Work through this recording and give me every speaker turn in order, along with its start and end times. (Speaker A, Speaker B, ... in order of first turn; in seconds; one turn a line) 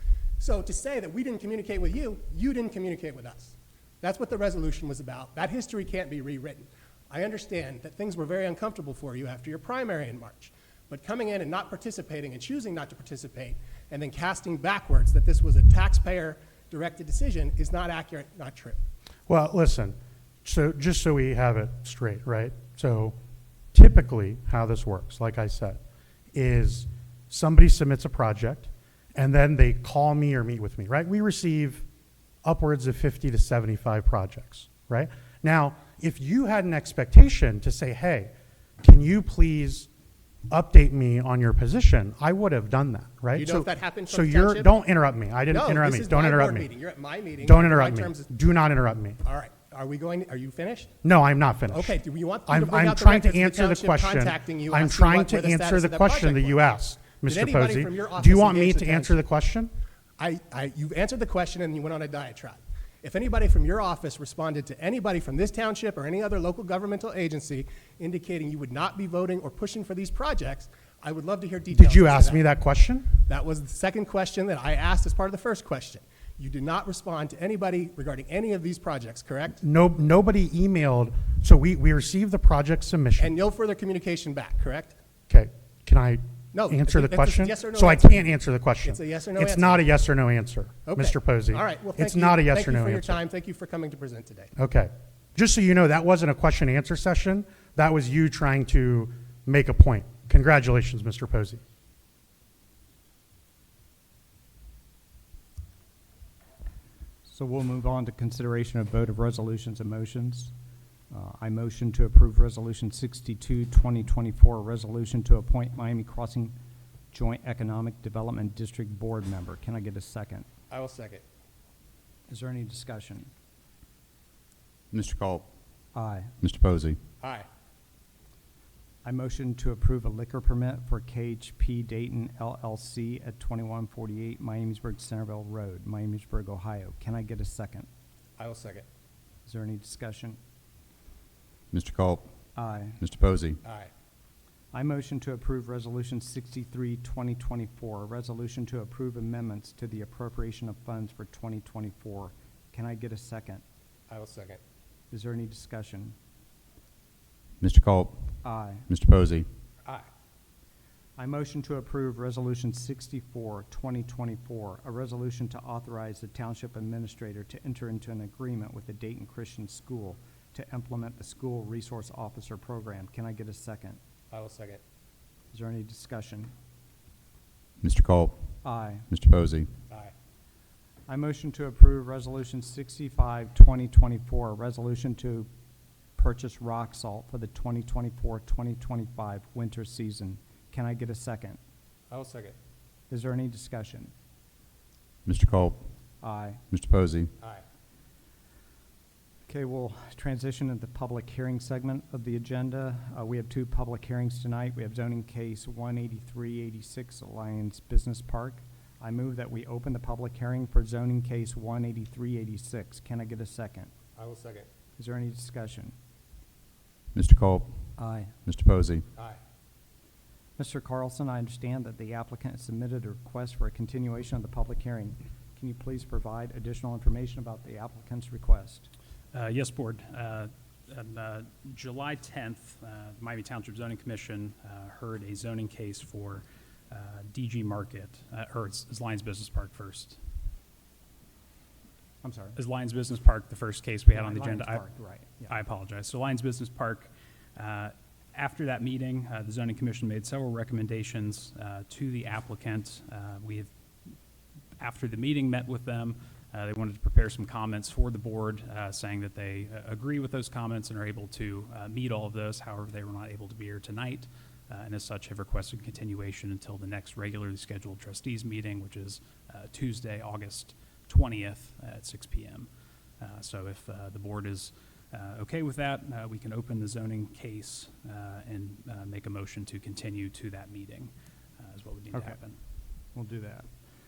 Speaker A: 0.4-18.8
Speaker B: 19.3-23.1
Speaker B: 23.7-25.8
Speaker B: 26.3-31.9
Speaker B: 32.4-39.9
Speaker B: 40.5-46.7
Speaker A: 43.3-44.7
Speaker A: 45.5-48.3
Speaker B: 47.4-49.2
Speaker A: 49.2-50.9
Speaker B: 51.0-59.7
Speaker A: 51.7-59.2
Speaker A: 60.2-72.4
Speaker B: 71.7-73.2
Speaker A: 73.2-79.6
Speaker B: 79.6-83.3
Speaker A: 83.2-85.0
Speaker B: 85.3-93.2
Speaker A: 86.5-88.3
Speaker A: 88.8-90.0
Speaker A: 90.8-94.5
Speaker B: 94.5-101.6
Speaker C: 107.2-110.5
Speaker C: 111.1-116.5
Speaker C: 117.1-120.5
Speaker A: 120.7-121.2
Speaker C: 122.3-123.3
Speaker D: 124.9-125.5
Speaker C: 125.9-126.3
Speaker D: 126.4-127.0
Speaker A: 127.2-127.5
Speaker C: 129.0-137.9
Speaker A: 138.4-138.8
Speaker C: 139.4-140.4
Speaker D: 141.7-142.3
Speaker C: 142.6-143.0
Speaker D: 143.0-143.6
Speaker A: 143.6-143.9
Speaker C: 144.7-153.6
Speaker A: 154.1-154.6
Speaker C: 155.1-156.2
Speaker D: 157.6-158.3
Speaker C: 158.4-158.8
Speaker D: 158.9-159.5
Speaker C: 161.2-174.0
Speaker A: 174.3-174.8
Speaker C: 175.5-176.5
Speaker D: 177.8-178.5
Speaker C: 178.6-179.1
Speaker D: 179.1-179.7
Speaker C: 181.1-185.5
Speaker C: 186.2-191.6
Speaker A: 192.1-192.5
Speaker C: 193.1-194.1
Speaker D: 195.2-195.9
Speaker C: 196.2-196.6
Speaker D: 196.7-197.3
Speaker C: 199.5-213.9
Speaker A: 214.2-214.7
Speaker C: 215.0-215.9
Speaker D: 217.1-217.9
Speaker C: 218.0-218.3
Speaker D: 218.4-219.0
Speaker C: 220.6-228.9
Speaker E: 229.3-240.2
Speaker C: 242.2-242.6
Speaker E: 242.6-244.8
Speaker C: 244.1-245.6
Speaker E: 245.5-253.7
Speaker E: 254.8-272.7
Speaker E: 273.2-282.6
Speaker C: 282.1-282.4
Speaker C: 283.1-283.7